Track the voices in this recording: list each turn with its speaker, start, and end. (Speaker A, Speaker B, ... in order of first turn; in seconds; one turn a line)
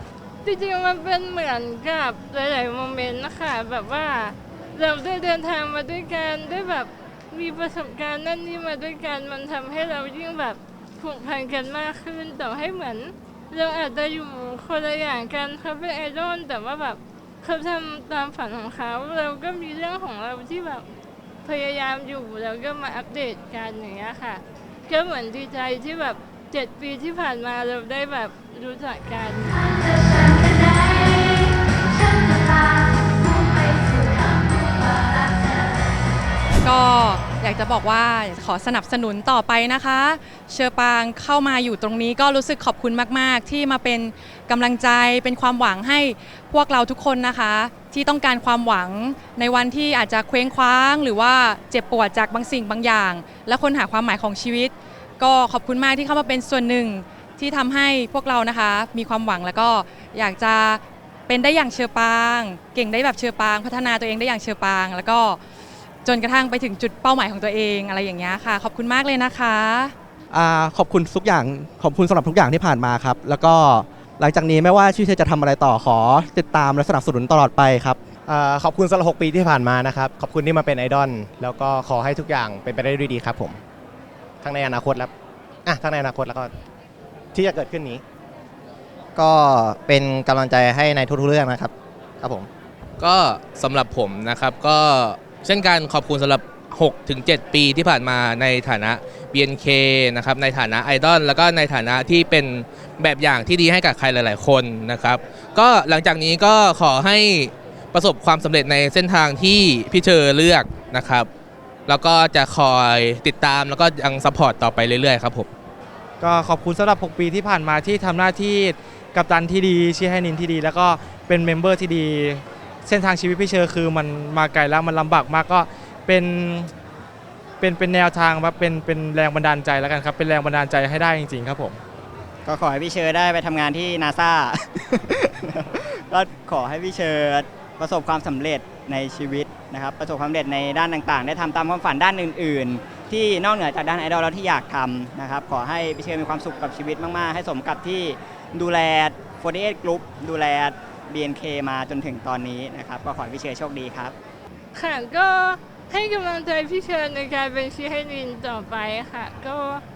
Speaker A: 0.5-20.9
Speaker A: 21.4-29.7
Speaker B: 36.6-65.4
Speaker B: 66.0-69.9
Speaker C: 70.3-78.0
Speaker D: 78.3-83.6
Speaker D: 84.4-85.1
Speaker D: 85.7-86.5
Speaker D: 87.3-88.0
Speaker E: 89.2-92.5
Speaker F: 93.0-111.3
Speaker F: 111.9-115.5
Speaker G: 116.2-126.7
Speaker G: 127.6-131.8
Speaker H: 132.5-154.2
Speaker A: 154.8-159.8